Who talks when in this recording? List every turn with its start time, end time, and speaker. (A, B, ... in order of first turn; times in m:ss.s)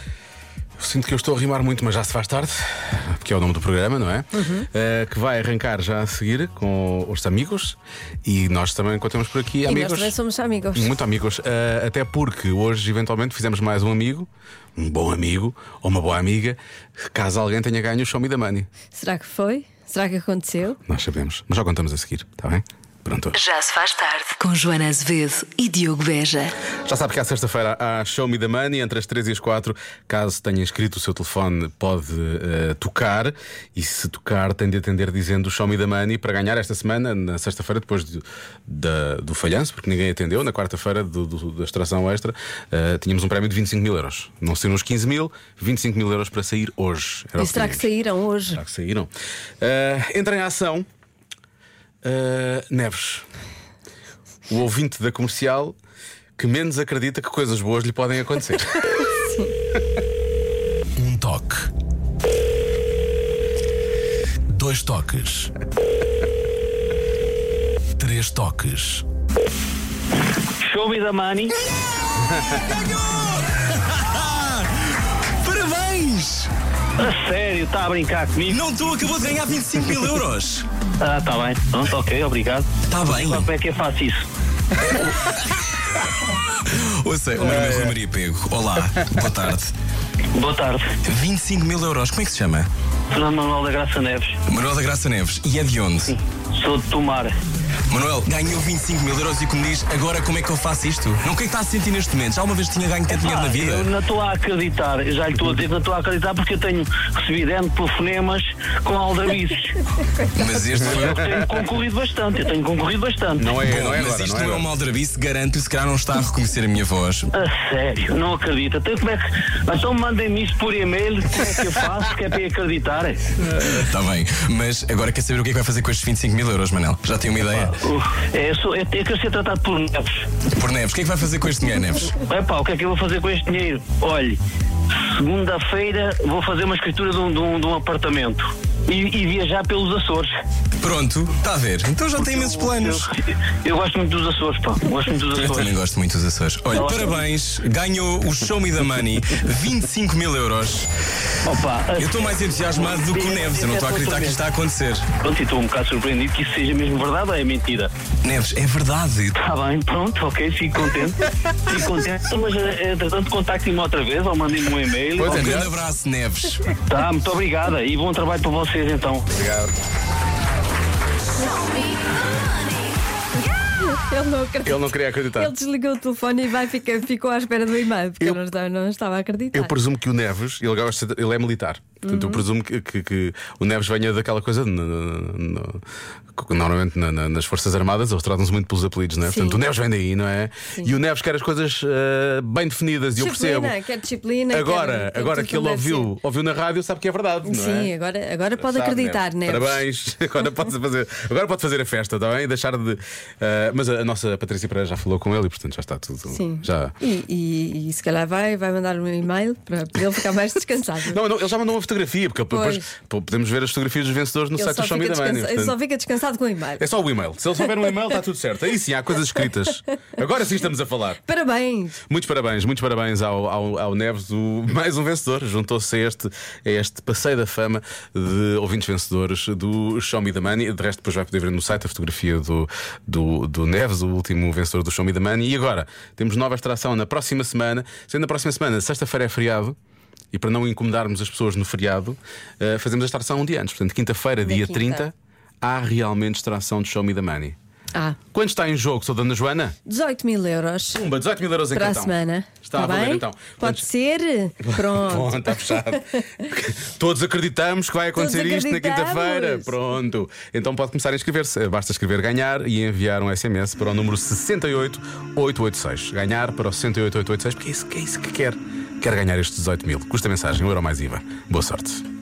0:00.8-0:10.1 A
0:04.3-0:04.7 B
0:09.6-0:10.9 B
0:10.7-0:18.7 A
0:18.9-0:20.8 B
0:20.8-0:23.4 A
0:23.3-0:26.5 C
0:26.8-0:47.9 A
0:47.4-0:48.6 B
0:48.5-0:49.1 A
0:49.6-0:50.9 A
0:52.0-0:53.3 A
0:54.5-0:55.8 A
0:56.4-0:59.1 A
0:59.0-0:59.5 B
1:01.0-1:01.7 A
1:04.5-1:05.5 A
1:08.0-1:09.0 A
1:10.6-1:11.5 D
1:14.1-1:14.6 E
1:15.4-1:16.5 E
1:17.0-1:18.6 D
1:18.5-1:20.6 E
1:21.0-1:24.2 D
1:22.9-1:23.5 E
1:24.9-1:25.5 E
1:26.2-1:29.7 E
1:30.3-1:30.8 D
1:31.0-1:32.7 E
1:33.1-1:34.4 D
1:34.5-1:36.2 E
1:36.1-1:37.3 D
1:37.9-1:43.9 E
1:43.1-1:49.8 D
1:50.3-1:51.4 E
1:50.8-1:53.5 D
1:53.4-1:54.7 A
1:53.6-1:57.3 E
1:57.3-2:03.3 D
2:03.6-2:07.8 E
2:07.8-2:10.2 D
2:10.5-2:12.1 E
2:12.2-2:14.4 D
2:15.1-2:20.3 D
2:20.8-2:23.1 E
2:22.2-2:23.1 D
2:23.6-2:25.7 D
2:25.3-2:30.9 E
2:26.7-2:27.2 D
2:31.4-2:32.2 D
2:32.0-2:35.1 E
2:32.7-2:34.4 D
2:35.2-2:37.9 D
2:38.2-2:39.3 E
2:39.4-2:45.6 D
2:45.2-2:45.8 A
2:45.2-2:46.7 E
2:46.9-2:49.2 D
2:49.3-2:49.7 A
2:53.8-2:59.7 B
2:54.6-2:55.5 A
2:59.5-3:05.8 A
3:02.0-3:02.4 B
3:06.3-3:13.7 A
3:09.2-3:09.6 B
3:13.2-3:16.1 B
3:14.5-3:17.9 A
3:17.4-3:19.8 B
3:18.6-3:26.9 A
3:26.3-3:31.2 B
3:31.0-3:35.8 A
3:32.5-3:32.9 B
3:34.5-3:36.8 B
3:36.8-3:41.2 A
3:41.2-3:42.0 B
3:42.1-3:59.8 A
4:00.3-4:07.6 A
4:04.4-4:05.1 B
4:08.3-4:09.8 A
4:09.9-4:11.0 B
4:10.9-4:13.9 A
4:11.7-4:16.2 B
4:14.6-4:32.0 A
4:18.1-4:19.8 B